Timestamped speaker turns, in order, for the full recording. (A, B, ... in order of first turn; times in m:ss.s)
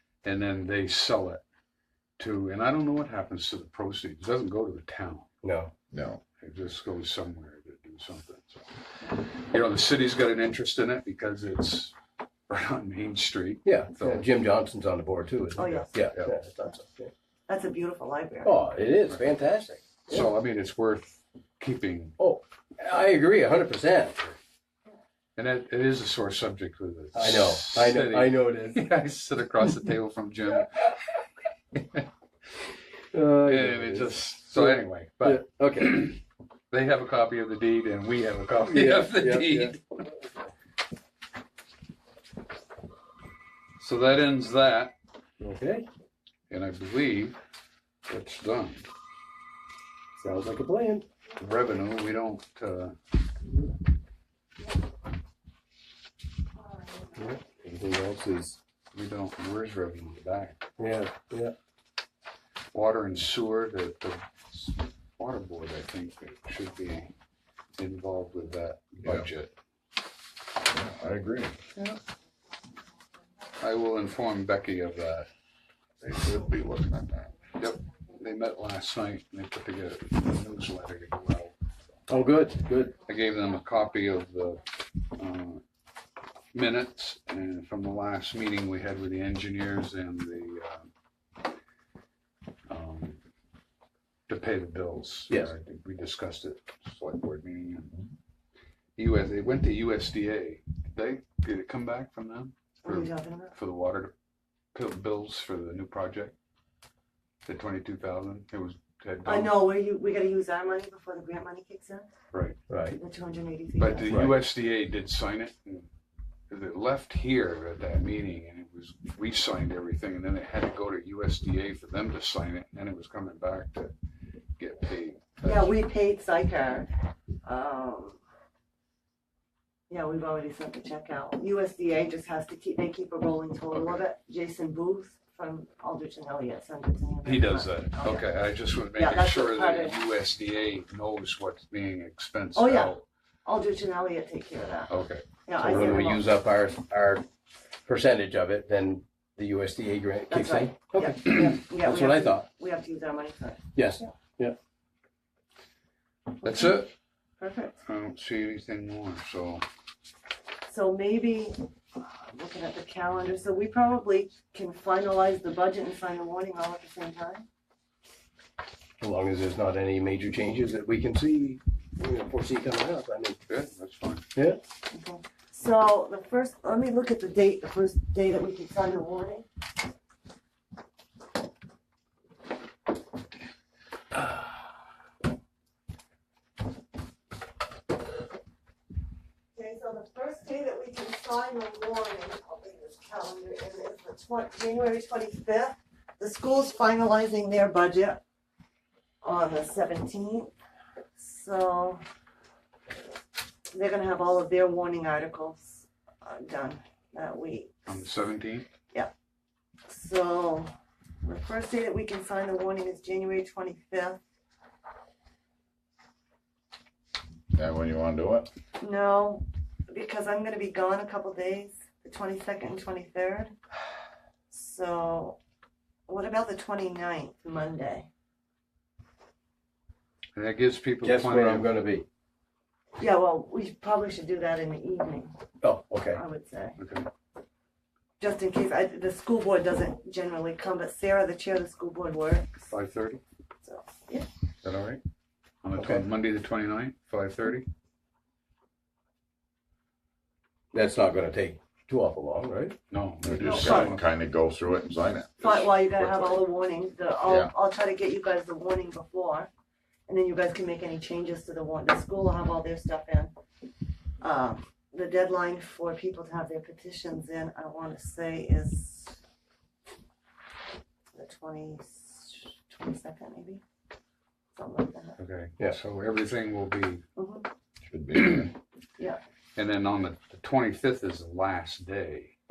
0:00.2-0:01.4 A
0:02.2-0:05.3 A
0:05.4-0:05.7 B
0:05.9-0:06.2 C
0:06.4-0:12.0 A
0:12.5-0:14.3 A
0:13.6-0:17.1 B
0:15.6-0:15.9 D
0:15.6-0:16.4 A
0:17.5-0:18.5 D
0:18.4-0:20.3 B
0:20.1-0:22.2 A
0:22.2-0:24.4 B
0:25.4-0:31.1 A
0:27.1-0:28.9 B
0:31.8-0:32.0 A
0:33.1-0:36.1 B
0:33.5-0:36.2 A
0:36.7-0:40.0 A
0:38.6-0:39.8 B
0:43.8-0:45.0 A
0:45.4-0:45.9 B
0:46.5-0:47.4 A
0:48.1-0:48.9 A
0:50.2-0:51.1 B
0:51.4-0:53.0 A
0:56.7-0:57.2 D
0:57.2-0:58.6 B
0:58.9-1:00.6 A
1:00.8-1:01.5 B
1:02.7-1:07.1 A
1:07.8-1:09.6 A
1:10.6-1:11.6 C
1:13.6-1:15.3 A
1:16.0-1:17.3 C
1:17.6-1:21.6 A
1:22.1-1:23.0 B
1:23.0-1:25.6 A
1:26.5-1:30.9 A
1:32.7-1:33.2 A
1:34.3-1:37.9 A
1:35.3-1:35.5 B
1:39.0-1:44.1 A
1:42.8-1:43.6 D
1:44.7-1:46.4 A
1:47.4-1:49.6 A
1:49.3-1:52.1 D
1:52.3-1:52.6 A
1:52.7-1:53.0 B
1:52.9-1:54.3 D
1:53.8-1:55.9 A
1:54.1-1:54.4 B
1:56.5-2:03.9 A
2:04.6-2:05.7 A
2:05.4-2:06.9 D
2:07.4-2:08.2 D
2:09.9-2:18.3 D
2:13.7-2:14.0 A
2:17.2-2:23.0 A
2:19.0-2:20.0 D
2:22.6-2:24.9 D
2:24.9-2:25.3 A
2:25.5-2:26.2 D
2:25.6-2:27.2 B
2:27.9-2:32.5 B
2:30.3-2:34.1 D
2:33.8-2:34.6 B
2:36.4-2:36.8 D
2:36.4-2:36.9 A
2:37.4-2:37.8 D
2:37.8-2:39.6 A
2:40.7-2:47.5 D
2:49.0-2:53.4 B
2:53.5-2:54.3 A
2:54.4-2:54.6 B
2:54.9-2:59.5 D
3:09.6-3:18.2 D
3:19.2-3:20.5 D
3:21.2-3:22.0 D
3:23.7-3:28.0 D
3:27.9-3:28.7 A
3:29.9-3:30.7 D
3:31.2-3:34.2 D
3:37.5-3:38.5 C
3:38.8-3:43.5 D
3:44.5-3:45.4 D
3:46.1-3:48.1 D
3:50.4-3:51.7 A
3:51.0-3:52.1 B
3:53.0-3:55.4 D
3:55.6-3:56.2 B
3:56.1-3:56.8 D
3:56.8-3:57.1 A
3:58.2-4:02.7 D
4:02.7-4:03.2 A
4:03.6-4:04.3 D
4:04.6-4:05.0 A
4:05.6-4:07.7 A
4:05.7-4:06.1 B
4:10.7-4:12.8 B
4:12.9-4:14.0 A
4:13.2-4:16.4 C
4:13.4-4:14.0 D
4:15.4-4:19.5 D
4:17.2-4:17.5 C
4:20.1-4:23.3 D
4:24.2-4:29.2 D
4:31.1-4:33.6 D
4:34.6-4:35.2 D
4:35.2-4:37.0 A
4:37.2-4:37.5 D
4:37.8-4:38.5 C
4:39.6-4:42.4 A